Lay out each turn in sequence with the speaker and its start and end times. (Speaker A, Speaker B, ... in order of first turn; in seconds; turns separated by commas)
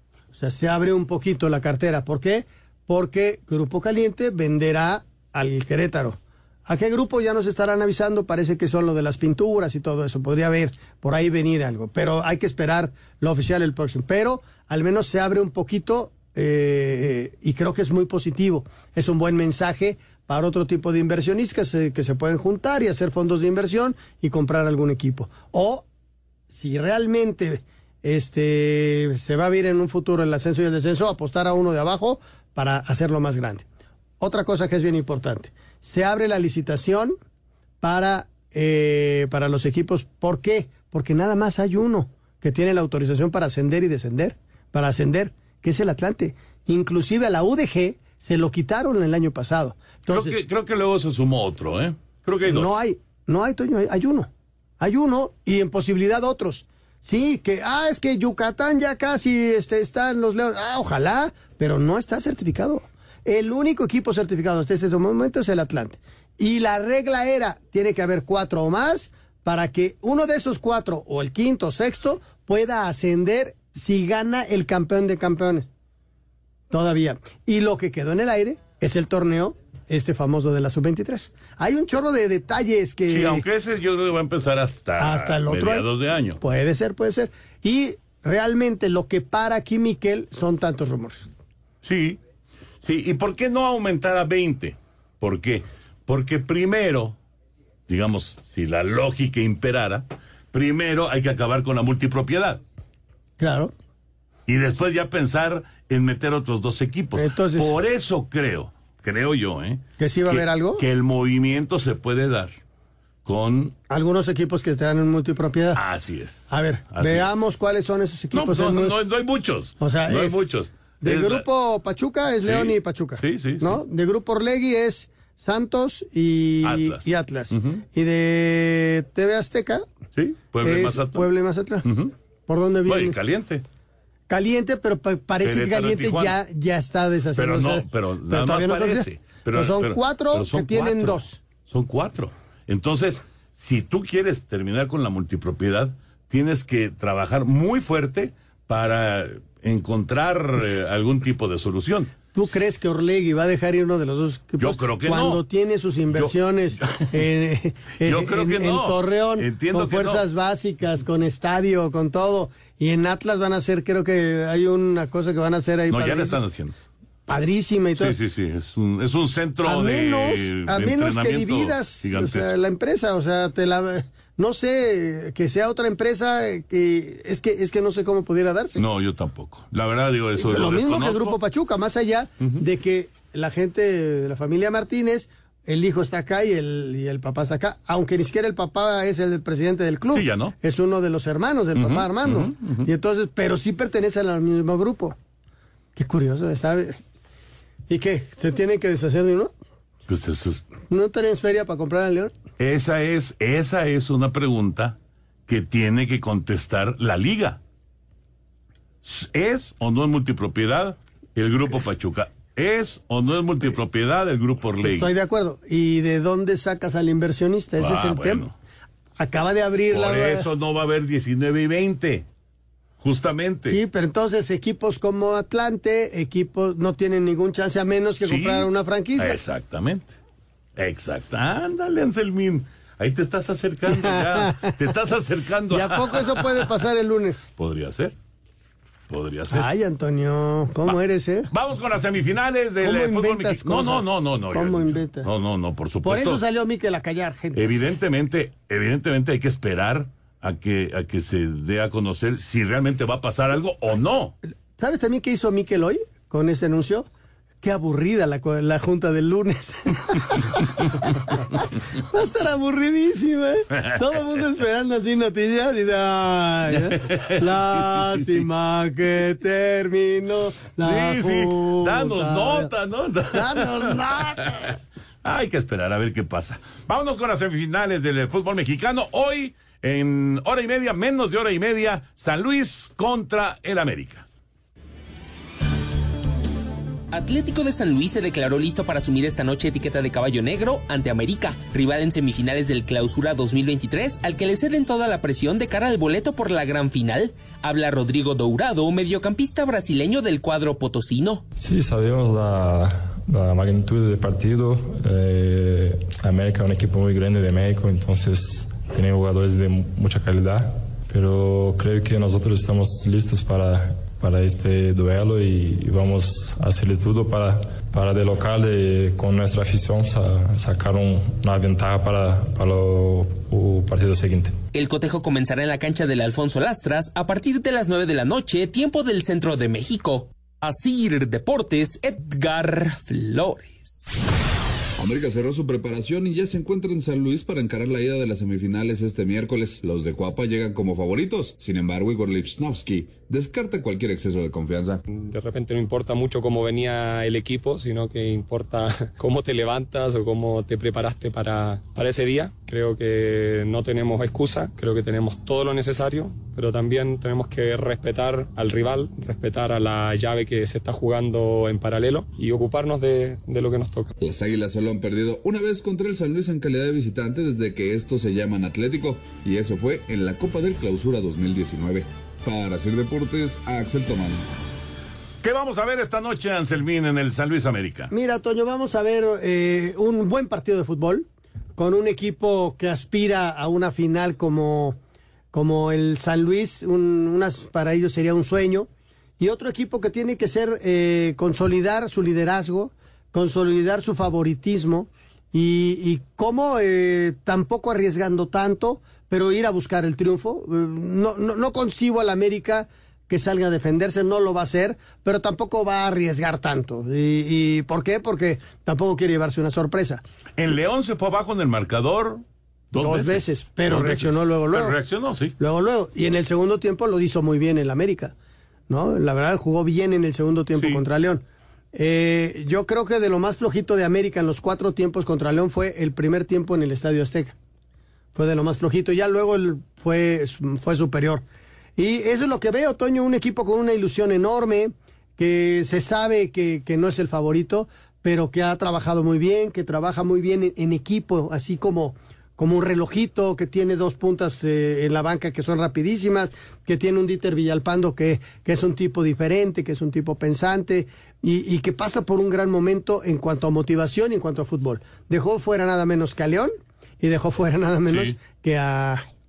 Speaker A: 0.3-25.9, Speaker A: 26.5-33.6, Speaker A: 34.2-37.1, Speaker A: 37.8-50.4, Speaker B: 50.1-52.7, Speaker A: 52.5-54.3, Speaker A: 54.8-75.7, Speaker A: 76.7-83.4, Speaker B: 83.1-86.4, Speaker A: 85.0-85.9, Speaker A: 86.4-91.3, Speaker B: 91.8-92.2, Speaker B: 92.8-97.2, Speaker B: 97.9-102.6, Speaker A: 103.4-103.7, Speaker B: 104.5-112.6, Speaker A: 107.2-107.8, Speaker A: 110.0-110.8, Speaker B: 113.2-113.7, Speaker A: 113.9-115.8, Speaker B: 115.7-117.3, Speaker A: 116.5-118.9, Speaker B: 118.3-121.4, Speaker A: 119.8-120.4, Speaker A: 121.0-129.8, Speaker B: 122.4-123.8, Speaker B: 126.6-127.8, Speaker B: 130.2-131.3, Speaker A: 130.6-131.9, Speaker B: 131.8-132.1, Speaker A: 132.5-133.2, Speaker B: 132.9-133.6, Speaker A: 134.3-141.4, Speaker B: 135.4-136.4, Speaker B: 137.4-152.1, Speaker A: 152.3-166.4, Speaker B: 154.6-155.4, Speaker B: 156.1-157.2, Speaker B: 158.0-160.2, Speaker B: 165.9-166.8, Speaker A: 167.3-168.1, Speaker B: 167.9-172.6, Speaker A: 169.6-178.8, Speaker B: 178.8-181.4, Speaker A: 180.4-195.2, Speaker B: 190.1-190.6, Speaker B: 191.7-192.9, Speaker A: 195.9-197.0, Speaker A: 197.9-199.5, Speaker B: 200.1-200.7, Speaker A: 200.9-202.3, Speaker B: 202.6-204.9, Speaker B: 205.5-207.6, Speaker B: 209.0-215.1, Speaker A: 214.8-218.4, Speaker B: 217.8-218.5, Speaker A: 219.2-220.5, Speaker B: 219.9-222.2, Speaker B: 223.0-223.8, Speaker A: 223.7-229.4, Speaker B: 228.2-230.2, Speaker B: 230.8-236.7, Speaker A: 233.9-234.7, Speaker A: 235.7-237.4, Speaker B: 237.6-238.1, Speaker B: 239.1-239.7, Speaker A: 239.5-241.5, Speaker B: 241.5-246.4, Speaker A: 242.8-245.3, Speaker A: 246.0-247.8, Speaker B: 247.6-254.4, Speaker A: 254.8-257.1, Speaker A: 257.6-272.7, Speaker B: 266.7-268.5, Speaker B: 270.8-284.2, Speaker A: 273.3-274.5, Speaker C: 287.1-301.4, Speaker D: 301.6-324.6, Speaker C: 324.7-334.1, Speaker E: 335.0-345.0, Speaker F: 345.1-364.1, Speaker E: 364.2-374.4, Speaker B: 375.4-378.1, Speaker A: 378.1-381.2, Speaker A: 381.8-385.0, Speaker A: 385.5-388.9, Speaker A: 389.4-410.2, Speaker B: 410.6-415.6, Speaker A: 412.9-414.9, Speaker A: 415.6-418.3, Speaker A: 418.9-427.6, Speaker A: 428.4-431.4, Speaker A: 432.0-459.2, Speaker B: 458.1-458.4